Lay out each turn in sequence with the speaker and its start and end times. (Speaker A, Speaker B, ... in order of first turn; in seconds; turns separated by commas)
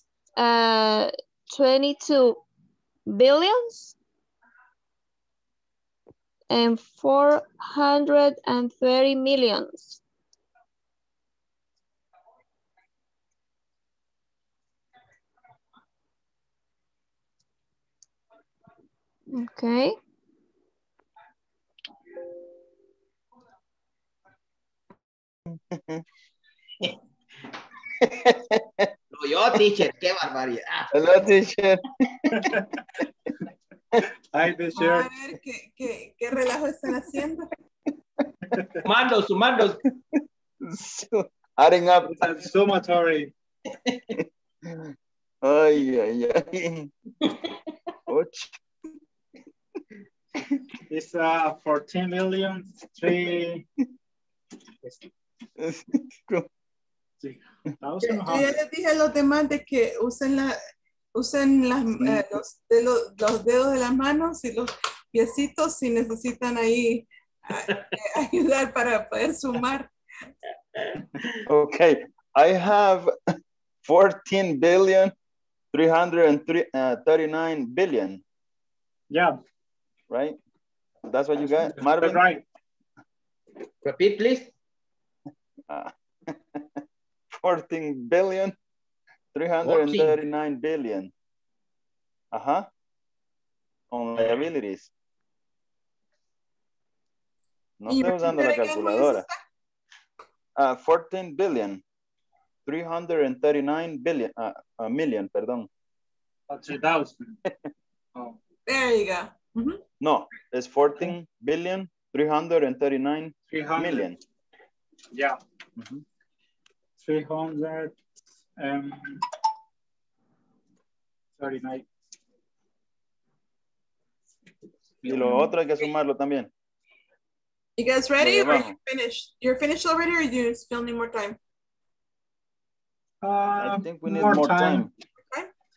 Speaker A: 0.4-2.4, Speaker A: 3.1-3.9, Speaker A: 6.5-10.0, Speaker A: 19.3-19.9, Speaker B: 25.7-26.0, Speaker C: 29.1-30.9, Speaker B: 30.9-31.8, Speaker D: 32.3-32.6, Speaker D: 34.3-35.1, Speaker E: 34.7-37.5, Speaker C: 38.9-39.8, Speaker B: 40.6-42.3, Speaker D: 42.0-43.3, Speaker B: 44.2-46.9, Speaker B: 48.1-48.5, Speaker D: 50.9-53.6, Speaker B: 55.6-56.5, Speaker D: 57.2-58.6, Speaker E: 58.0-60.6, Speaker E: 61.1-69.9, Speaker B: 71.5-73.1, Speaker B: 73.8-75.1, Speaker B: 75.7-78.2, Speaker D: 79.1-79.3, Speaker B: 80.1-80.4, Speaker B: 81.1-82.2, Speaker D: 81.7-82.4, Speaker C: 83.8-84.5, Speaker B: 85.7-86.3, Speaker B: 87.4-88.5, Speaker B: 89.3-91.1, Speaker C: 89.6-90.1, Speaker B: 92.3-92.7, Speaker B: 93.9-94.9, Speaker B: 97.8-99.2, Speaker E: 97.9-99.3, Speaker B: 100.6-101.8, Speaker B: 102.7-105.7, Speaker D: 106.5-107.4, Speaker E: 108.7-109.8, Speaker B: 110.0-114.2, Speaker D: 113.5-114.1, Speaker D: 115.1-115.4, Speaker B: 115.8-116.0, Speaker D: 117.0-117.9, Speaker D: 118.6-119.2, Speaker D: 121.4-121.8, Speaker D: 125.0-125.5, Speaker B: 125.0-126.5, Speaker E: 127.8-131.4, Speaker B: 128.2-128.8, Speaker D: 133.2-134.9, Speaker B: 133.6-134.9